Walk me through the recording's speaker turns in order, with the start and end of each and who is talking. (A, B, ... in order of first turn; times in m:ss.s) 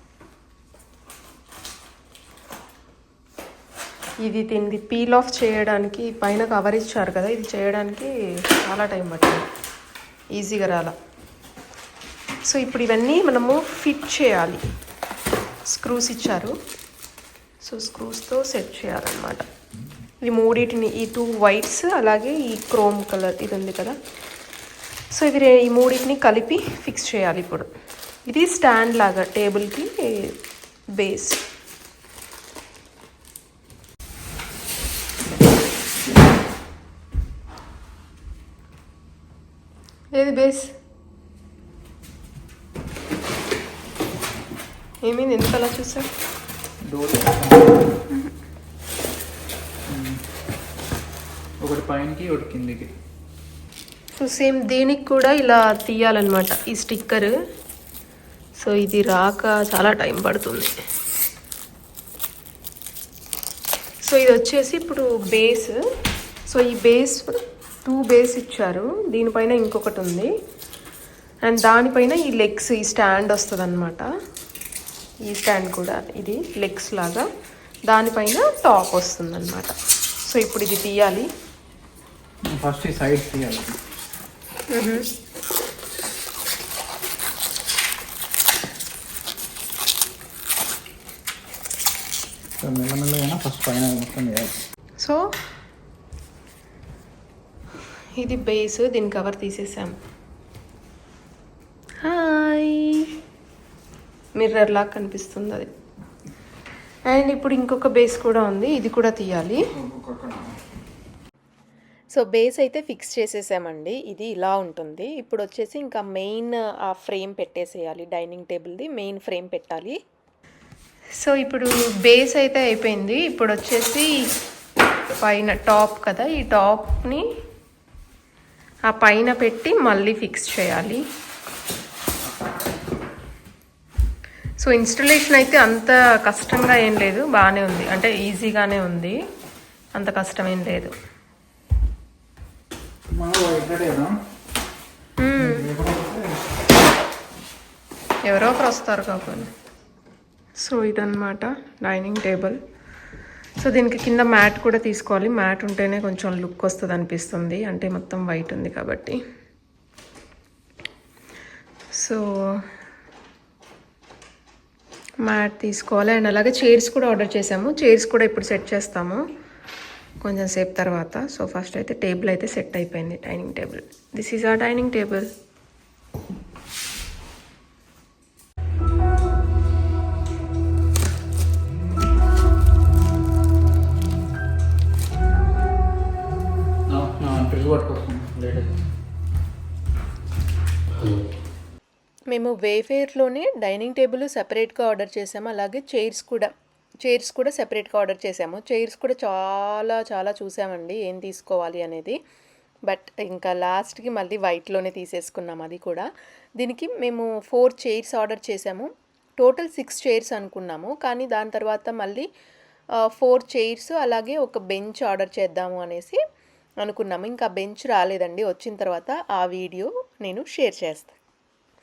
0:04.2-0:09.5 A
0:10.4-0:10.9 A
0:12.5-0:14.6 A
0:15.7-0:16.5 A
0:17.6-0:19.4 A
0:20.2-0:24.0 A
0:25.1-0:27.7 A
0:28.3-0:30.3 A
0:31.0-0:31.4 A
0:40.1-0:40.7 A
0:45.0-0:46.1 A
0:46.9-0:47.9 B
0:49.9-0:50.2 B
0:51.6-0:52.9 B
0:54.2-0:57.3 A
0:58.6-1:00.7 A
1:04.1-1:05.8 A
1:06.5-1:10.3 A
1:11.4-1:14.0 A
1:15.3-1:17.2 A
1:17.9-1:19.7 A
1:20.3-1:21.3 A
1:22.5-1:23.8 B
1:24.7-1:25.0 A
1:32.6-1:34.6 B
1:38.2-1:40.0 A
1:42.0-1:43.1 A
1:44.4-1:45.7 A
1:47.1-1:49.6 A
1:49.7-1:50.6 B
1:52.1-2:00.0 A
2:01.2-2:04.1 A
2:05.2-2:07.2 A
2:08.9-2:11.0 A
2:14.6-2:19.2 A
2:20.0-2:20.9 A
2:23.2-2:24.1 B
2:25.2-2:25.7 A
2:25.4-2:26.4 B
2:28.3-2:29.5 A
2:30.6-2:32.6 A
2:33.6-2:39.2 A
2:42.0-2:42.2 A
2:45.2-2:49.2 A
2:50.2-2:55.3 A
3:06.9-3:08.7 B
3:12.3-3:16.5 A
3:17.0-3:22.2 A
3:22.9-3:26.1 A
3:26.6-3:32.3 A
3:33.1-3:36.2 A
3:36.8-3:41.1 A